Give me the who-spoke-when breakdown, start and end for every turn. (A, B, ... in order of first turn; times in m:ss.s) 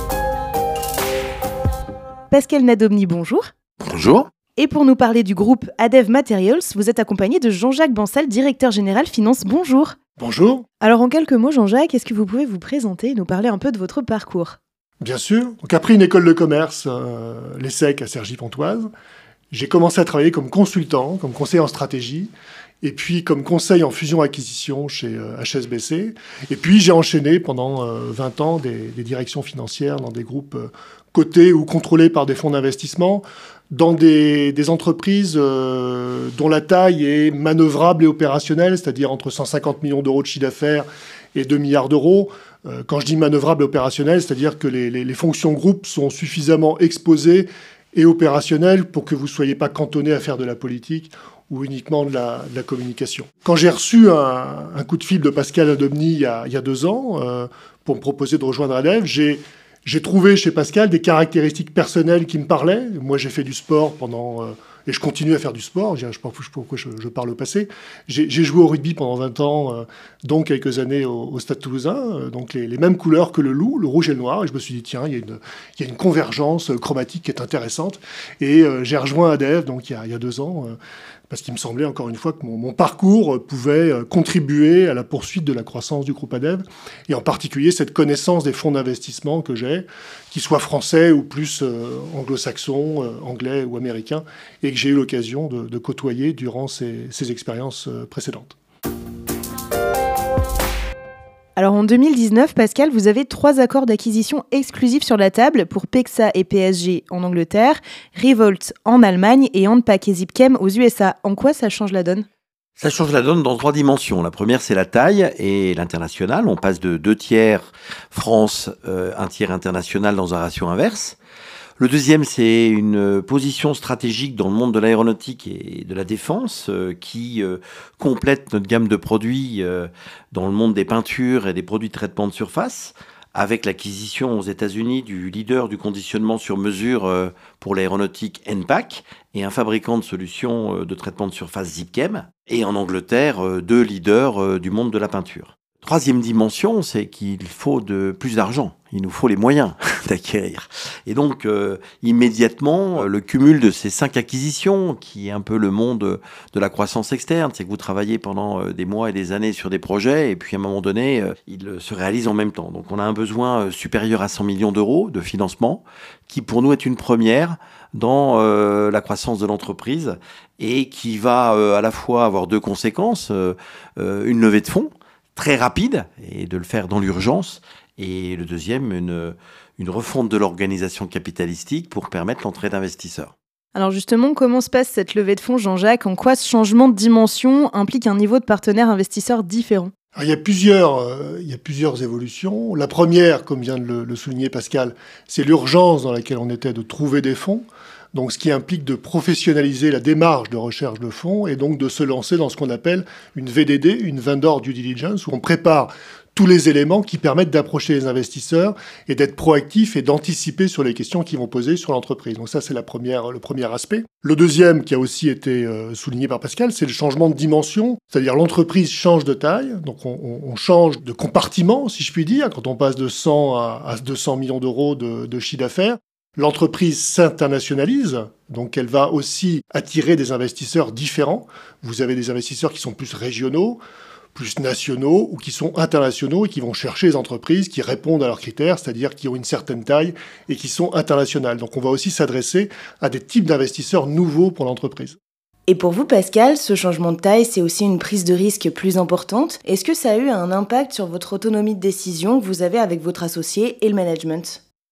0:02.3-0:03.5 A
0:03.8-0:04.3 B
0:04.6-0:10.0 A
0:10.2-0:10.6 C
0:10.8-0:14.6 A
0:15.0-0:18.9 C
0:19.5-0:22.3 C
0:22.8-1:20.8 C
1:21.3-1:38.6 C
1:41.6-1:52.2 A
1:52.8-2:01.2 B
2:01.8-3:03.3 B
3:03.7-3:09.9 A
3:10.1-3:53.8 C
3:54.3-4:05.2 C
4:05.7-4:14.6 A